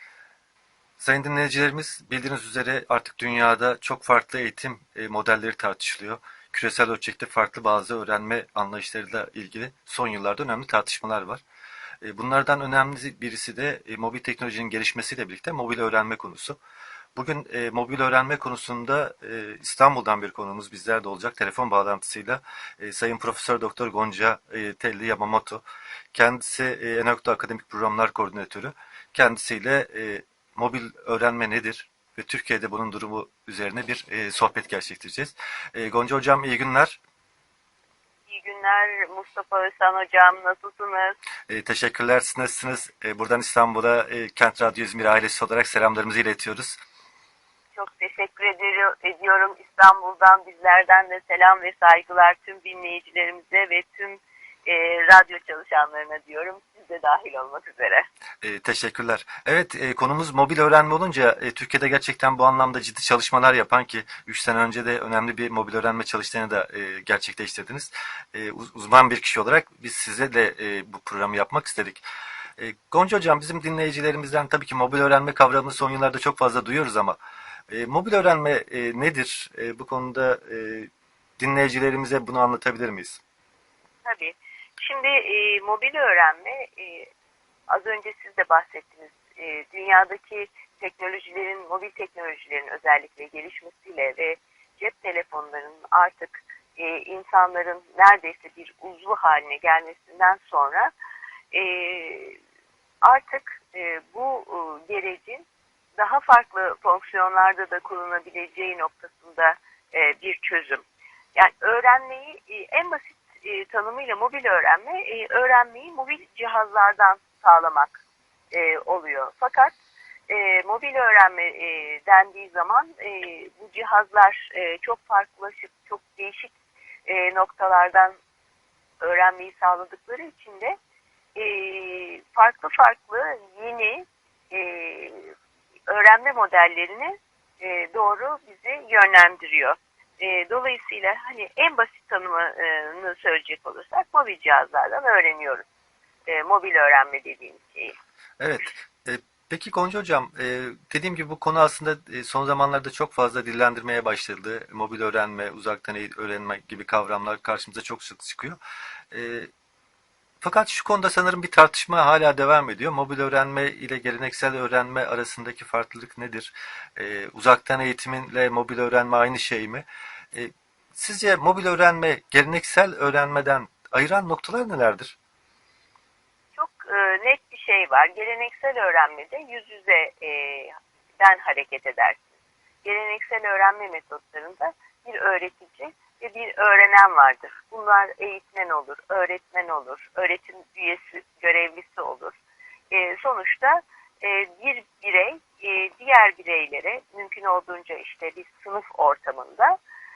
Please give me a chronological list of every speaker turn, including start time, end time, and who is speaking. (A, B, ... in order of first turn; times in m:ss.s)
0:01.0-0:11.4 A
0:12.0-0:16.6 A
0:17.2-0:25.6 A
0:26.1-0:37.0 A
0:38.3-0:41.2 B
0:41.5-0:46.8 A
0:47.7-0:58.1 B
0:58.4-1:12.0 A
1:12.6-1:17.2 A
1:17.7-1:23.2 A
1:24.0-1:27.1 B
1:27.7-1:40.9 B
1:41.5-1:42.4 B
1:43.0-1:50.8 B
1:51.3-1:58.0 B
1:58.5-1:59.7 B
2:00.3-2:06.5 B
2:07.0-2:08.2 B
2:09.0-2:10.8 B
2:11.3-2:15.3 B
2:15.9-2:25.6 B
2:26.3-2:28.0 B
2:28.4-2:38.6 A
2:39.1-2:39.5 A
2:40.4-2:55.2 A
2:56.5-3:02.2 B
3:02.8-3:12.4 B
3:12.9-3:19.8 B